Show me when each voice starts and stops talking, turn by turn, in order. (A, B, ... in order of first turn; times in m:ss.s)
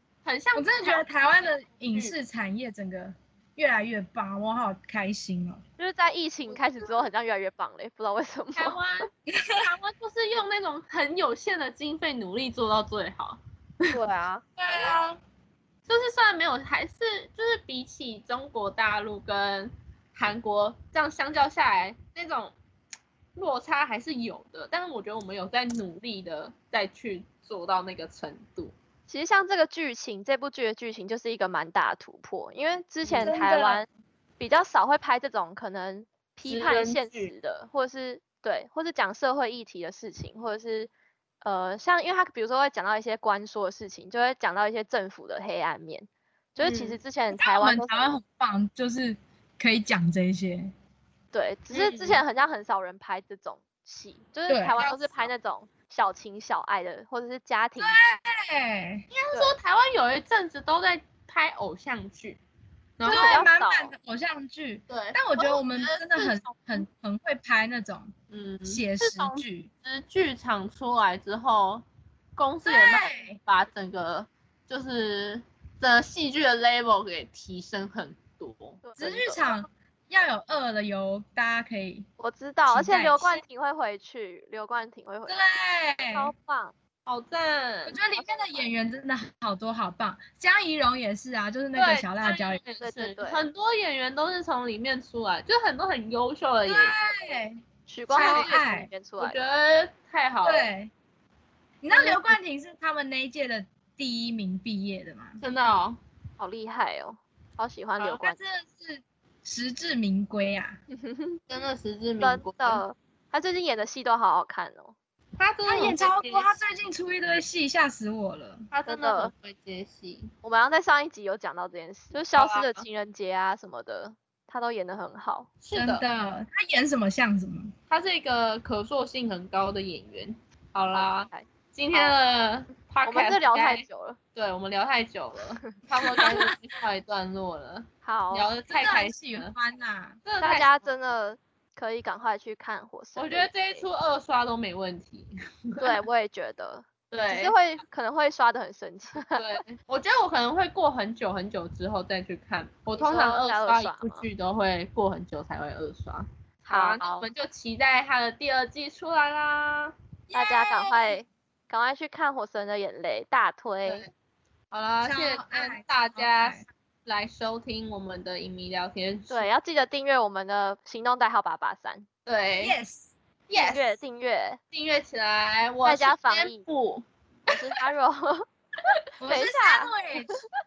0:00.2-0:01.0 A
0:00.5-0:05.6 B
0:05.8-0:08.8 C
0:06.5-0:07.1 A
0:08.5-0:13.9 A
0:09.3-0:09.6 B
0:13.9-0:14.4 C
0:14.6-0:15.2 B
0:14.6-0:15.0 A
0:15.9-0:22.5 A
0:23.3-0:28.7 A
0:29.1-0:33.8 C
0:33.0-0:33.4 A
0:33.2-0:33.8 B
0:34.4-0:40.9 C
0:36.4-0:37.3 A
0:41.4-0:48.1 C
0:46.6-0:47.0 A
0:47.3-0:50.7 B
0:51.3-0:58.0 C
0:51.7-0:52.2 A
0:54.5-0:54.8 B
0:54.8-0:55.3 A
0:57.8-0:59.0 B
0:59.1-1:02.4 A
0:59.3-0:59.6 C
1:03.0-1:03.5 A
1:03.0-1:08.1 B
1:03.0-1:03.9 C
1:04.9-1:06.8 A
1:08.3-1:11.8 A
1:08.6-1:09.7 B
1:12.4-1:19.6 A
1:12.6-1:13.4 B
1:18.8-1:19.4 C
1:19.0-1:22.1 B
1:22.2-1:25.4 C
1:22.7-1:23.4 B
1:25.3-1:26.3 B
1:26.0-1:26.7 C
1:27.0-1:28.0 A
1:27.9-1:32.6 B
1:31.7-1:37.0 A
1:32.8-1:33.4 C
1:36.6-1:37.6 B
1:37.9-1:39.4 C
1:38.1-1:38.5 A
1:38.1-1:38.9 B
1:39.2-1:40.7 A
1:40.4-1:40.9 B
1:41.8-1:45.4 B
1:45.4-1:46.0 A
1:46.4-1:48.4 C
1:48.0-1:50.8 B
1:50.9-1:51.4 C
1:51.5-1:52.8 A
1:52.2-1:54.9 C
1:55.4-1:56.5 A
1:55.6-1:58.6 B
1:58.7-2:00.3 A
1:58.8-1:59.3 C
2:00.4-2:05.5 C
2:02.1-2:02.8 A
2:05.6-2:06.0 A
2:05.7-2:07.7 B
2:07.9-2:13.8 A
2:10.9-2:12.2 C
2:13.0-2:14.2 C
2:14.4-2:19.5 A
2:16.0-2:16.6 B
2:18.0-2:18.5 C
2:18.7-2:20.2 B
2:20.2-2:20.9 A
2:20.4-2:23.8 C
2:23.2-2:25.9 A
2:25.8-2:29.4 C
2:27.1-2:27.6 A
2:29.3-2:39.9 A
2:32.9-2:34.2 C
2:36.6-2:37.2 C
2:40.3-2:41.2 B
2:40.3-2:44.1 C
2:44.7-2:49.5 A
2:45.0-2:46.6 B
2:49.3-2:52.1 C
2:52.2-2:52.8 A
2:52.6-2:53.1 B
2:53.5-2:54.0 A
2:53.6-2:54.6 C
2:54.7-2:57.8 A
2:55.8-2:56.6 C
2:57.5-2:58.4 C
2:59.2-3:00.4 B
2:59.3-3:00.3 C